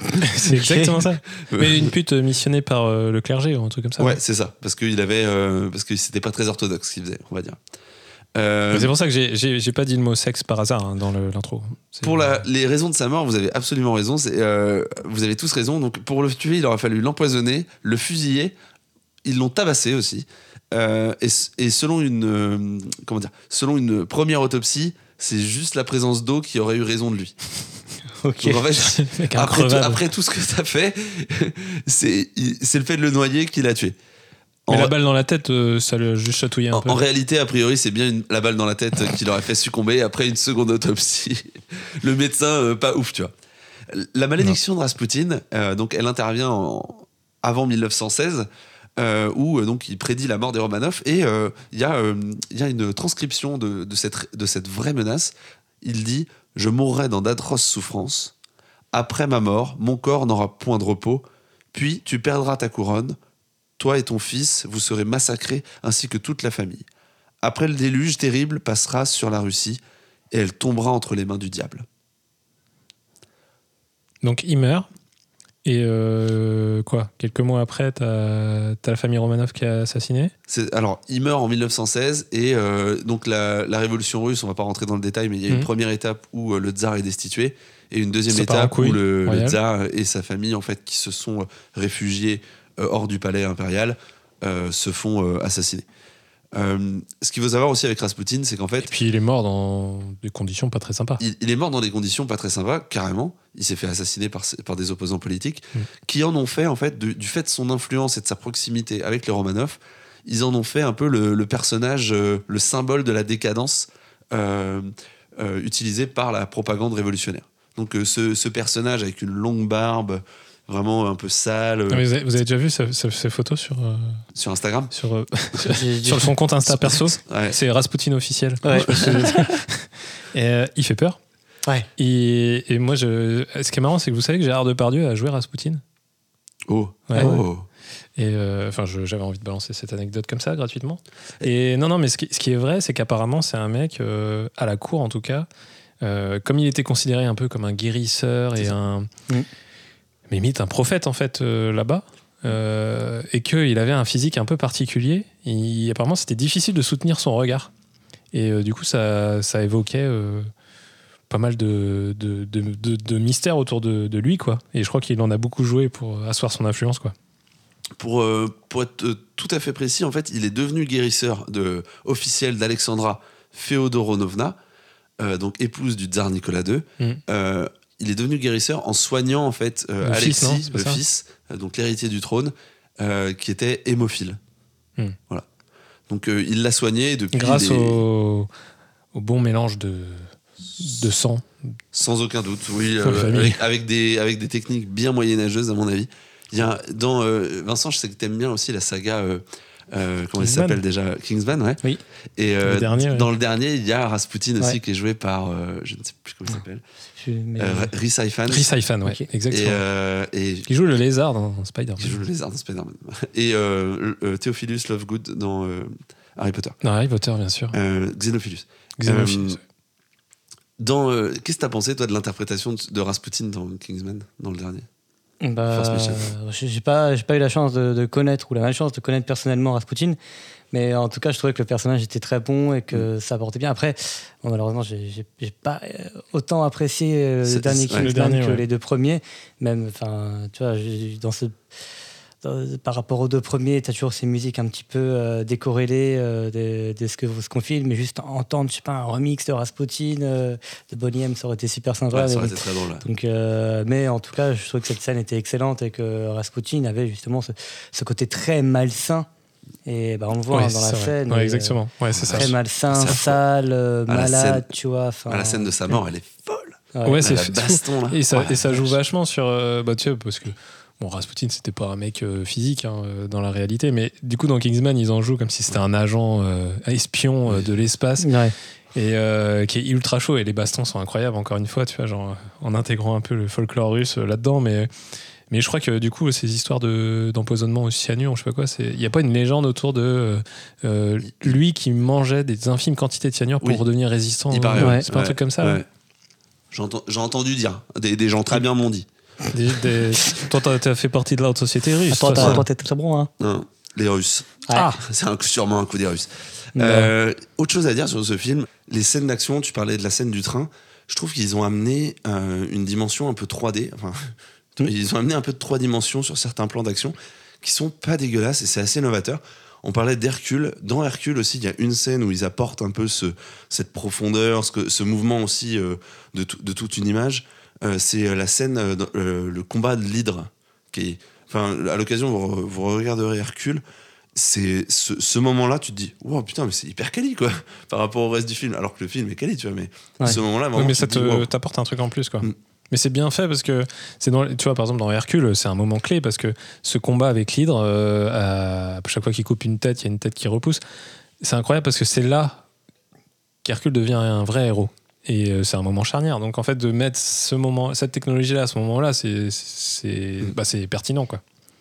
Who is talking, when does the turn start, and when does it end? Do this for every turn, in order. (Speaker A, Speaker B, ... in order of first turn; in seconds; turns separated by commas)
Speaker A: 0.2-4.2, Speaker B: 0.6-0.8, Speaker C: 1.5-1.9, Speaker C: 4.0-7.6, Speaker C: 8.3-8.9, Speaker A: 8.7-12.4, Speaker C: 12.0-18.6, Speaker C: 19.2-27.4, Speaker B: 28.2-28.6, Speaker C: 28.4-34.0, Speaker A: 28.8-30.0, Speaker C: 34.7-35.0, Speaker A: 34.7-37.0, Speaker C: 36.7-43.3, Speaker C: 43.9-58.3, Speaker C: 58.9-63.2, Speaker C: 63.8-66.9, Speaker C: 67.4-71.8, Speaker A: 74.2-74.9, Speaker A: 75.7-80.3, Speaker C: 80.5-95.9, Speaker A: 88.3-89.6, Speaker C: 96.5-98.9, Speaker A: 98.8-101.2, Speaker C: 101.2-122.0, Speaker A: 121.9-124.2, Speaker C: 124.3-124.9, Speaker A: 124.9-131.2, Speaker B: 125.6-126.3, Speaker C: 126.7-127.6, Speaker B: 128.6-129.3, Speaker C: 128.8-129.4, Speaker A: 132.0-135.8, Speaker C: 136.7-137.7, Speaker A: 137.1-137.5, Speaker A: 138.2-145.5, Speaker A: 146.0-149.1, Speaker A: 150.3-157.7, Speaker A: 158.3-160.5, Speaker A: 161.3-167.1, Speaker C: 168.0-174.6, Speaker C: 175.2-184.4, Speaker A: 180.0-181.0, Speaker C: 186.1-188.0, Speaker A: 187.3-188.5, Speaker A: 189.1-191.8, Speaker C: 191.9-201.8, Speaker A: 193.0-193.6, Speaker A: 200.4-200.8, Speaker C: 202.4-206.8, Speaker A: 202.6-203.3, Speaker B: 207.2-207.9, Speaker C: 207.6-208.7, Speaker A: 208.5-209.8, Speaker C: 209.5-210.7, Speaker A: 210.7-212.2, Speaker C: 212.0-216.8, Speaker A: 216.8-217.8, Speaker C: 217.7-219.6, Speaker A: 219.0-219.6, Speaker C: 220.8-224.9, Speaker B: 225.4-230.2, Speaker C: 225.7-226.3, Speaker B: 230.7-241.6, Speaker C: 237.4-238.1, Speaker A: 237.9-238.6, Speaker B: 242.4-259.3, Speaker C: 252.1-253.1, Speaker B: 259.9-261.8, Speaker A: 260.5-262.5, Speaker C: 262.1-263.4, Speaker B: 262.3-266.0, Speaker C: 264.1-264.7, Speaker C: 265.3-268.9, Speaker B: 266.9-267.2, Speaker A: 267.1-278.3, Speaker B: 278.2-278.5, Speaker A: 278.9-284.9, Speaker A: 285.5-295.8, Speaker C: 291.2-291.6, Speaker C: 294.5-295.9, Speaker B: 294.8-295.1, Speaker C: 296.7-299.1, Speaker A: 299.5-302.6, Speaker B: 302.1-303.3, Speaker C: 302.4-302.6, Speaker C: 303.4-333.8, Speaker B: 304.7-305.0, Speaker B: 306.8-307.1, Speaker C: 334.4-341.5, Speaker A: 340.8-350.8, Speaker A: 351.4-352.6, Speaker A: 353.6-361.4